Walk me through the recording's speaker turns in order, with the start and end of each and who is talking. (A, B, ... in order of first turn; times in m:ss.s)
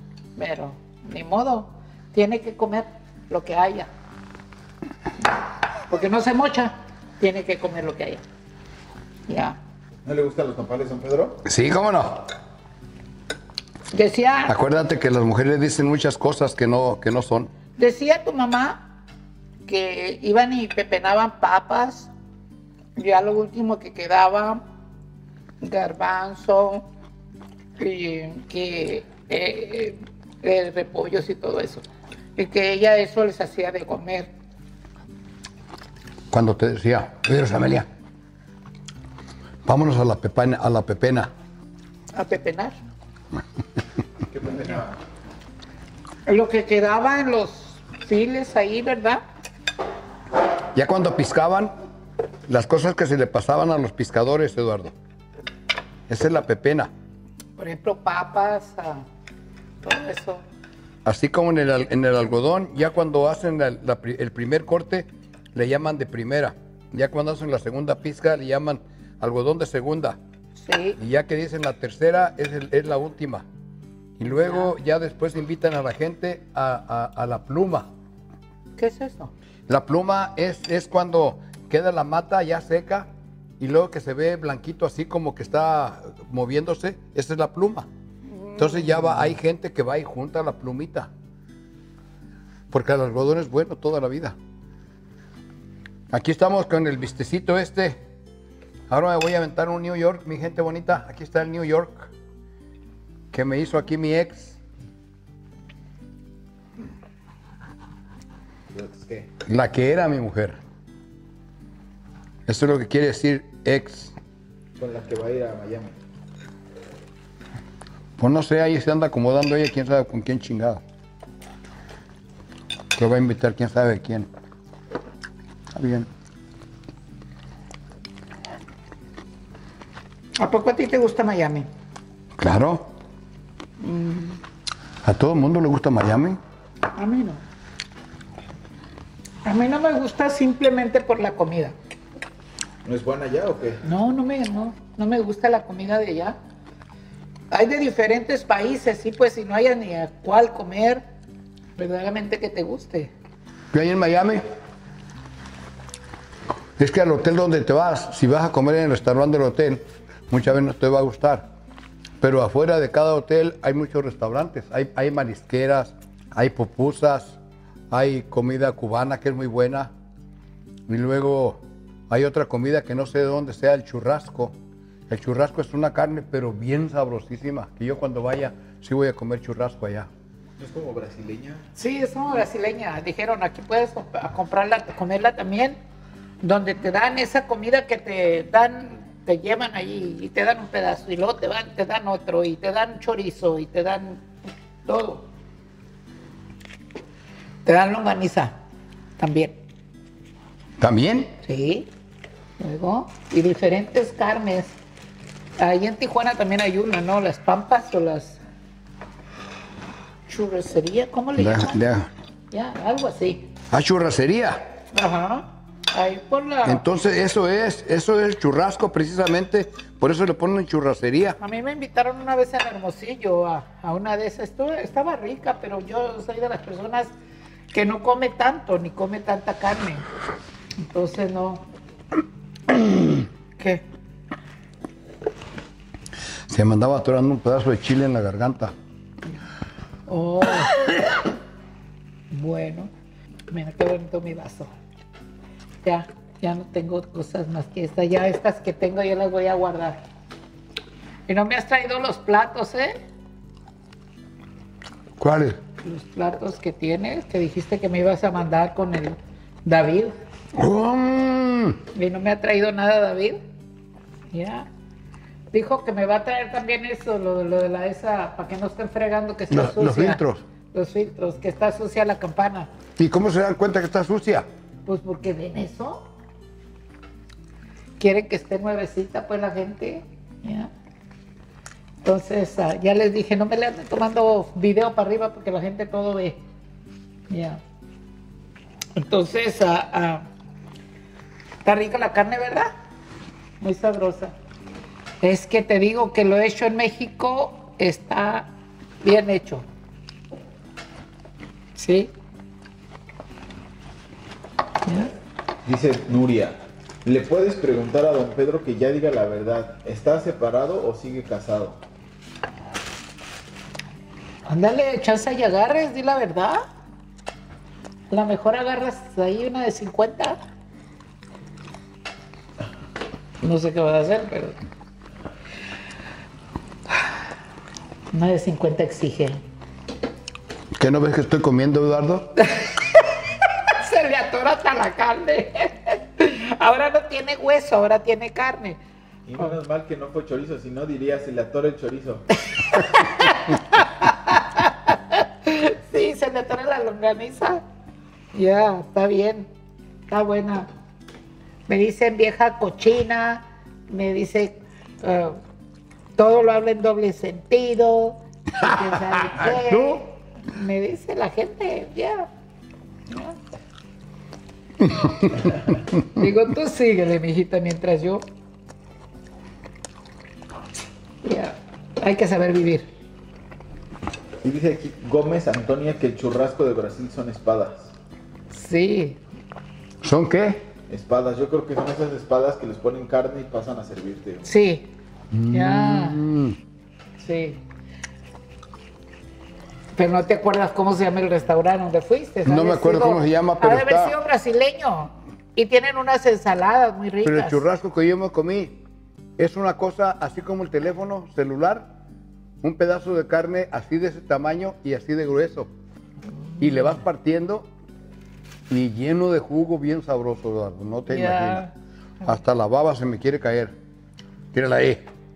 0:00.4-0:03.9 A
0:05.9-0:08.2 A
0:09.3-0:09.6 A
0:10.0-0:11.4 B
0:11.4-0:12.3 C
0:13.9-0:14.5 A
0:14.4-0:17.5 C
0:17.8-0:18.8 A
0:19.7-0:22.1 A
0:23.0-0:24.6 A
0:25.6-0:26.8 A
0:27.8-0:34.3 A
0:36.3-0:37.9 C
0:39.6-0:41.3 C
0:42.1-0:42.8 A
0:44.3-0:45.0 B
0:46.2-0:49.2 A
0:50.7-0:51.7 C
0:52.5-0:54.9 C
0:56.1-0:56.9 C
0:57.6-0:59.0 A
0:59.8-1:00.4 A
1:01.0-1:10.2 C
1:10.6-1:11.0 A
1:11.0-1:13.4 C
1:14.2-1:17.9 C
1:14.2-1:14.7 A
1:18.8-1:19.3 A
1:19.7-1:23.1 C
1:23.6-1:27.9 C
1:28.3-1:29.1 A
1:28.6-1:31.1 C
1:32.7-1:34.3 C
1:36.1-1:38.0 C
1:38.9-1:42.1 C
1:43.3-1:44.6 C
1:48.7-1:49.3 B
1:49.4-1:50.6 C
1:52.4-1:54.1 C
1:54.8-1:55.9 B
1:58.2-2:00.8 C
2:02.9-2:04.3 C
2:05.7-2:06.1 C
2:10.4-2:11.7 A
2:12.4-2:12.9 C
2:13.8-2:14.4 A
2:15.0-2:16.4 C
2:17.0-2:17.4 A
2:19.4-2:21.7 A
2:22.8-2:23.8 B
2:23.8-2:26.4 A
2:27.5-2:31.0 A
2:31.8-2:33.1 A
2:33.7-2:34.4 C
2:36.8-2:41.4 C
2:42.2-2:47.4 C
2:47.9-2:49.9 C
2:50.9-2:54.5 C
2:55.1-3:00.1 C
3:00.6-3:01.7 B
3:01.8-3:05.8 A
3:06.4-3:14.2 A
3:14.8-3:15.2 A
3:17.6-3:18.5 A
3:19.2-3:19.6 A
3:20.8-3:21.3 C
3:21.4-3:21.9 A
3:22.6-3:24.7 A
3:25.6-3:28.4 A
3:30.3-3:31.8 A
3:31.4-3:32.1 C
3:32.5-3:33.5 A
3:33.7-3:34.6 C
3:34.9-3:36.8 A
3:36.6-3:41.4 C
3:41.4-3:47.1 A
3:47.7-3:50.0 A
3:50.8-3:51.6 A
3:53.6-3:53.8 A
3:56.5-3:58.7 C
4:00.1-4:00.8 A
4:02.3-4:02.9 A
4:03.5-4:04.7 A
4:05.8-4:10.0 A
4:11.3-4:13.0 A
4:15.2-4:15.6 C
4:15.8-4:20.1 A
4:20.5-4:21.8 C
4:21.9-4:23.4 A
4:24.3-4:24.7 A
4:25.5-4:30.2 A
4:29.5-4:30.4 C
4:30.7-4:32.7 A
4:33.0-4:34.4 C
4:34.8-4:36.0 A
4:38.0-4:40.7 A
4:42.0-4:46.4 A
4:47.3-4:47.6 A
4:49.0-4:50.3 A
4:51.6-4:52.7 A
4:53.6-4:54.3 A
4:55.2-4:58.5 A
4:59.0-4:59.6 A
5:01.8-5:02.1 A
5:04.8-5:05.1 A
5:05.6-5:11.8 B
5:14.5-5:16.6 A
5:18.1-5:20.4 A
5:23.4-5:24.5 A
5:28.1-5:29.4 A
5:30.7-5:32.4 C
5:32.6-5:33.1 A
5:33.8-5:38.8 A
5:39.2-5:42.2 B
5:42.6-5:47.6 A
5:48.3-5:49.5 A
5:50.1-5:50.7 A
5:51.7-5:55.4 A
5:56.2-6:02.3 A
6:03.1-6:03.4 A
6:06.0-6:08.2 A
6:11.2-6:12.9 A
6:14.4-6:17.9 B
6:18.5-6:19.2 A
6:20.0-6:20.6 C
6:20.9-6:24.5 B
6:24.4-6:24.9 A
6:25.3-6:26.6 C
6:25.5-6:26.2 A
6:27.2-6:27.6 A
6:30.0-6:37.6 A
6:32.4-6:34.1 C
6:37.2-6:38.8 C
6:39.4-6:41.9 C
6:42.6-6:45.7 C
6:46.6-6:47.7 C
6:48.7-6:51.7 C
6:51.1-6:51.7 A
6:52.2-6:53.7 C
6:54.5-6:55.0 C